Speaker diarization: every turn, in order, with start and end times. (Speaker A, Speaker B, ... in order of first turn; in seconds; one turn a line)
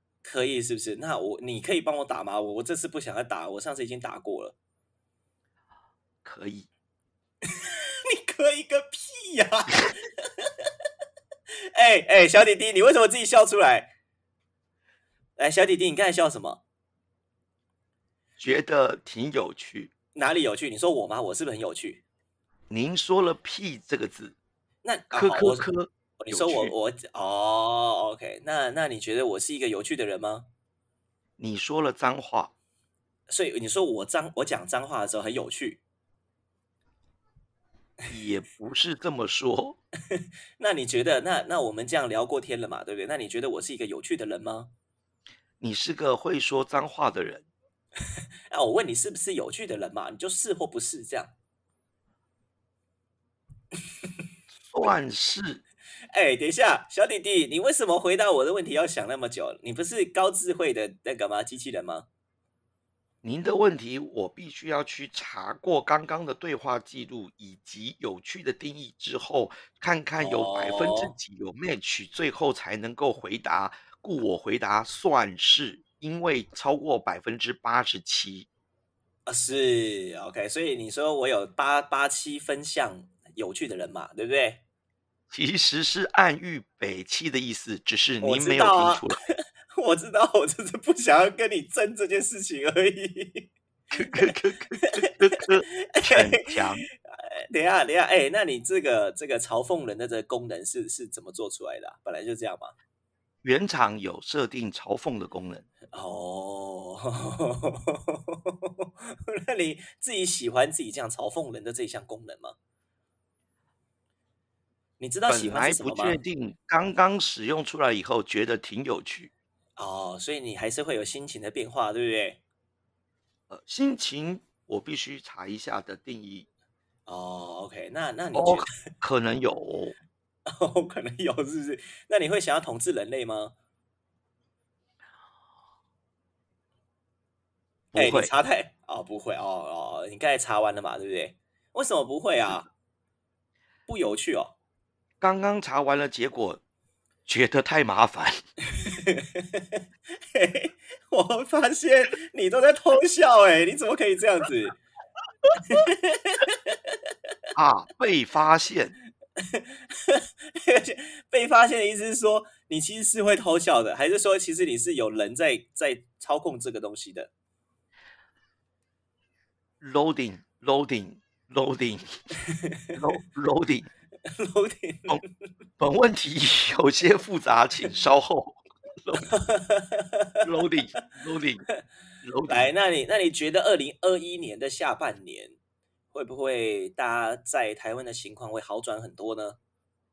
Speaker A: 0.2-4.5
Speaker B: 6.2-6.7
Speaker A: 7.5-10.4
Speaker A: 11.7-13.9
Speaker A: 15.4-16.6
Speaker B: 18.4-19.9
Speaker A: 20.1-22.0
Speaker B: 22.7-24.4
Speaker A: 24.8-25.7
Speaker B: 25.1-26.7
Speaker A: 26.2-30.5
Speaker B: 31.4-32.5
Speaker A: 33.3-35.8
Speaker B: 38.1-39.8
Speaker A: 40.1-44.7
Speaker B: 45.6-47.5
Speaker A: 48.5-51.3
Speaker B: 54.5-55.6
Speaker A: 56.1-62.1
Speaker B: 63.2-78.5
Speaker A: 70.2-71.1
Speaker A: 79.2-84.6
Speaker B: 85.3-89.2
Speaker A: 88.2-93.5
Speaker B: 93.9-96.8
Speaker A: 94.1-94.3
Speaker A: 96.0-102.8
Speaker B: 103.4-105.7
Speaker A: 105.9-112.6
Speaker A: 115.0-116.2
Speaker B: 115.3-119.3
Speaker A: 119.8-122.4
Speaker B: 123.5-126.5
Speaker A: 127.0-128.7
Speaker B: 128.3-129.9
Speaker A: 130.5-133.5
Speaker B: 137.9-138.3
Speaker A: 137.9-142.7
Speaker A: 143.9-144.5
Speaker B: 145.2-146.6
Speaker B: 147.2-148.4
Speaker A: 148.7-154.8
Speaker A: 155.5-156.9
Speaker B: 157.5-158.9
Speaker A: 159.4-167.3
Speaker B: 169.8-172.1
Speaker A: 172.7-173.0
Speaker B: 172.9-173.9
Speaker A: 174.3-175.3
Speaker B: 175.8-179.4
Speaker A: 179.3-180.3
Speaker B: 180.4-181.7
Speaker B: 182.2-182.7
Speaker A: 182.5-185.6
Speaker A: 186.1-189.6